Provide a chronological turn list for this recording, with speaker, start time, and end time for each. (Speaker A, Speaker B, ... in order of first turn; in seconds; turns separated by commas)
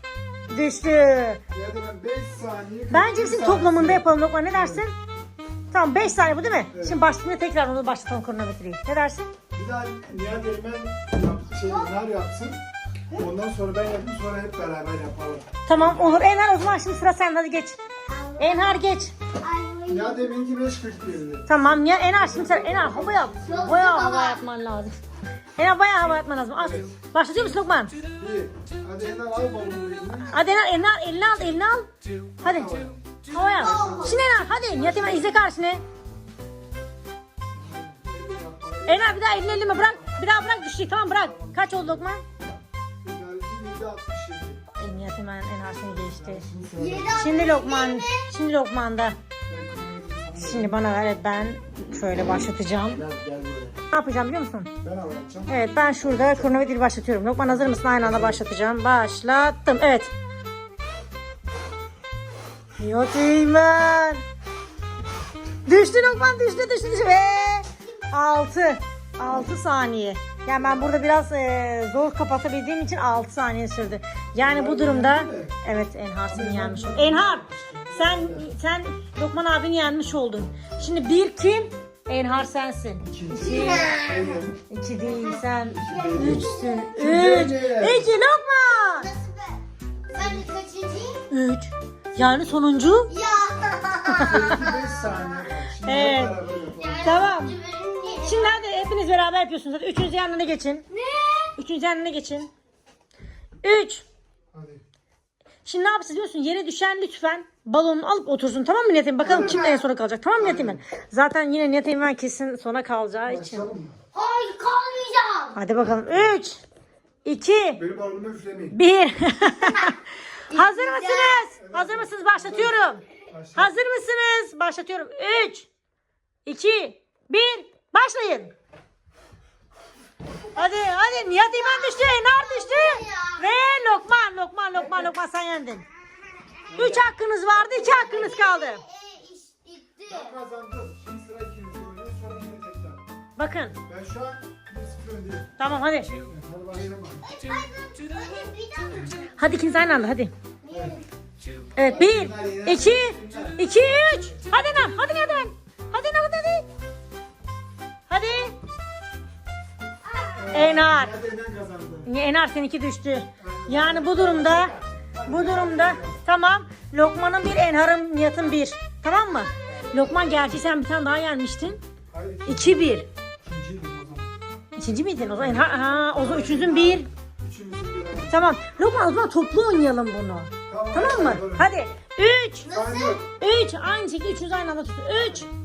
Speaker A: 0.5-1.4, Speaker B: 1.5-4.9, Speaker A: 2.9-5.0, Speaker A: 5.7-9.3, Speaker B: 6.7-7.0, Speaker B: 9.5-16.2, Speaker C: 11.6-11.9, Speaker A: 15.7-17.8, Speaker C: 18.1-18.9, Speaker A: 18.4-19.1, Speaker C: 19.4-20.3, Speaker B: 19.9-23.8, Speaker A: 21.5-24.9, Speaker C: 23.4-24.4, Speaker A: 25.6-27.9, Speaker B: 26.6-26.9, Speaker B: 28.2-30.4, Speaker A: 30.3-31.9, Speaker B: 32.4-33.0, Speaker A: 32.4-32.7, Speaker A: 33.3-35.8, Speaker C: 33.6-34.2, Speaker B: 33.7-34.1, Speaker B: 34.7-35.4, Speaker B: 37.6-40.2, Speaker A: 38.9-42.2, Speaker B: 41.2-42.0, Speaker B: 43.0-44.6, Speaker A: 44.8-46.5, Speaker B: 46.1-47.2, Speaker C: 46.8-48.3, Speaker A: 47.1-49.2, Speaker B: 49.5-50.8, Speaker A: 50.4-53.1, Speaker B: 53.1-53.8, Speaker A: 53.9-54.7, Speaker B: 54.8-55.5, Speaker A: 55.5-60.1, Speaker B: 56.2-56.6, Speaker B: 57.4-58.5, Speaker A: 62.8-64.2, Speaker A: 65.7-83.9, Speaker B: 70.5-70.9, Speaker B: 74.4-75.6, Speaker B: 76.3-78.5, Speaker B: 83.1-84.6, Speaker C: 83.4-84.4, Speaker A: 84.7-89.1, Speaker C: 85.1-86.9, Speaker B: 85.8-88.1, Speaker C: 88.9-91.2, Speaker A: 91.3-93.1, Speaker C: 93.1-95.2, Speaker A: 94.1-94.6, Speaker B: 94.2-97.2, Speaker A: 95.8-96.4, Speaker C: 96.7-98.6, Speaker A: 97.0-97.6, Speaker A: 98.2-100.8, Speaker C: 100.9-101.5, Speaker A: 101.6-102.5, Speaker A: 103.6-104.0, Speaker B: 104.5-104.8, Speaker A: 105.6-113.7, Speaker B: 109.2-109.7, Speaker C: 109.3-109.8, Speaker B: 110.4-110.8, Speaker B: 113.3-114.0, Speaker C: 114.1-115.6, Speaker A: 115.5-116.6, Speaker A: 117.2-117.8, Speaker B: 117.8-118.8, Speaker A: 118.7-120.0, Speaker C: 119.6-119.9, Speaker C: 120.5-121.5, Speaker A: 120.5-123.0, Speaker B: 121.6-123.7, Speaker A: 123.5-125.7, Speaker A: 126.5-128.5, Speaker A: 130.6-135.8, Speaker C: 131.5-133.5, Speaker B: 136.7-137.1, Speaker A: 136.8-138.8, Speaker C: 137.5-140.4, Speaker B: 140.1-143.0, Speaker A: 143.4-143.8, Speaker B: 143.9-145.5, Speaker A: 145.6-146.1, Speaker B: 146.3-147.2, Speaker C: 147.2-149.4, Speaker A: 149.4-150.3, Speaker C: 150.6-151.0, Speaker B: 150.7-151.0, Speaker A: 151.8-156.7, Speaker B: 151.9-153.6, Speaker A: 158.1-158.6, Speaker C: 160.2-160.4, Speaker B: 160.4-162.1, Speaker A: 160.5-161.1, Speaker A: 162.1-164.7, Speaker B: 163.4-166.2, Speaker A: 165.3-171.8, Speaker C: 169.6-170.3, Speaker B: 172.1-174.3, Speaker A: 172.5-173.1, Speaker A: 174.8-177.1, Speaker B: 175.4-178.4, Speaker A: 178.3-182.7, Speaker B: 180.7-181.7, Speaker C: 182.6-183.3, Speaker B: 182.7-183.2, Speaker A: 183.4-185.5